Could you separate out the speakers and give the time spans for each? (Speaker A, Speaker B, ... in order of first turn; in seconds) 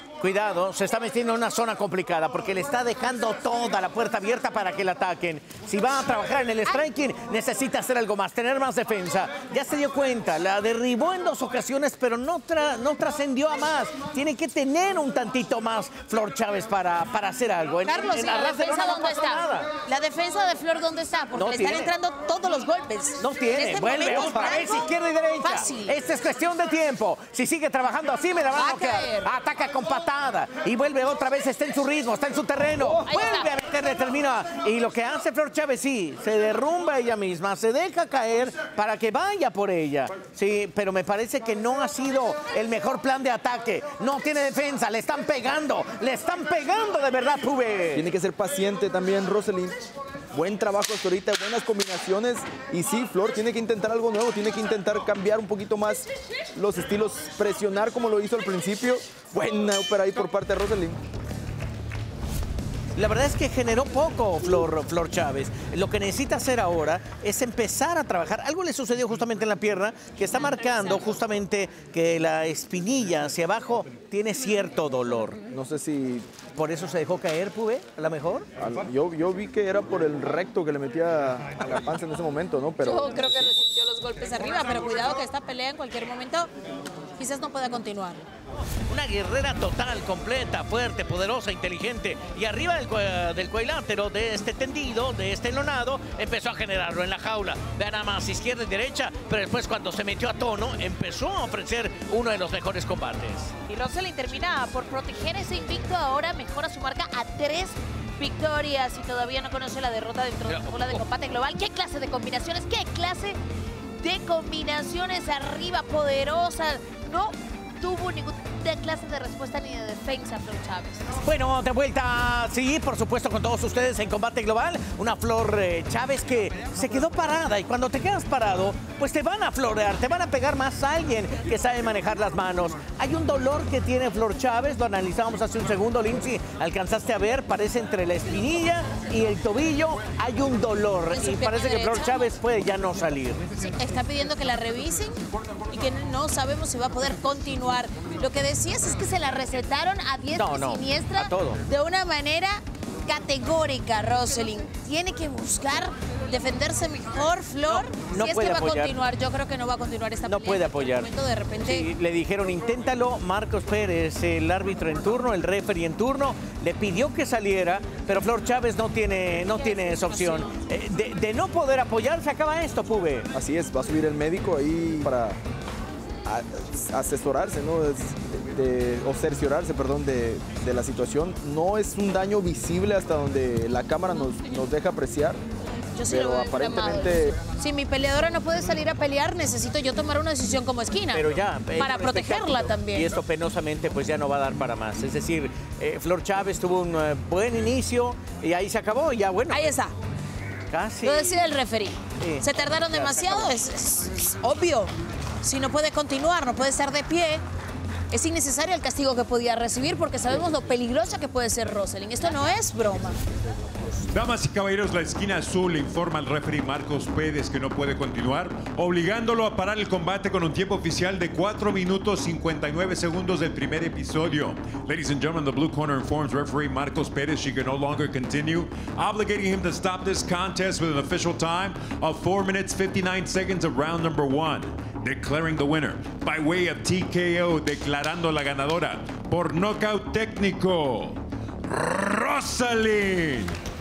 Speaker A: 0.2-19.7, 21.4-21.9, 23.2-48.1, 63.0-75.4, 76.6-78.5, 88.9-103.5, 110.5-111.0, 121.2-143.5, 150.4-151.6, 157.7-159.0, 160.2-173.3, 191.1-199.7, 200.7-201.4, 202.2-203.5
Speaker B: 17.9-24.9, 25.4-26.0, 28.5-29.3, 33.0-33.5, 82.8-86.5, 87.2-88.2, 103.7-113.4, 114.0-121.0, 141.1-142.3, 143.6-161.9, 169.4-170.5, 186.0-191.2, 191.8-193.1, 199.5-199.9, 201.0-207.4, 208.1-213.2
Speaker C: 47.9-49.8, 50.3-61.0, 75.5-76.3, 78.6-83.3, 173.3-175.4, 176.2-185.4, 186.1-187.4
Speaker D: 214.1-243.6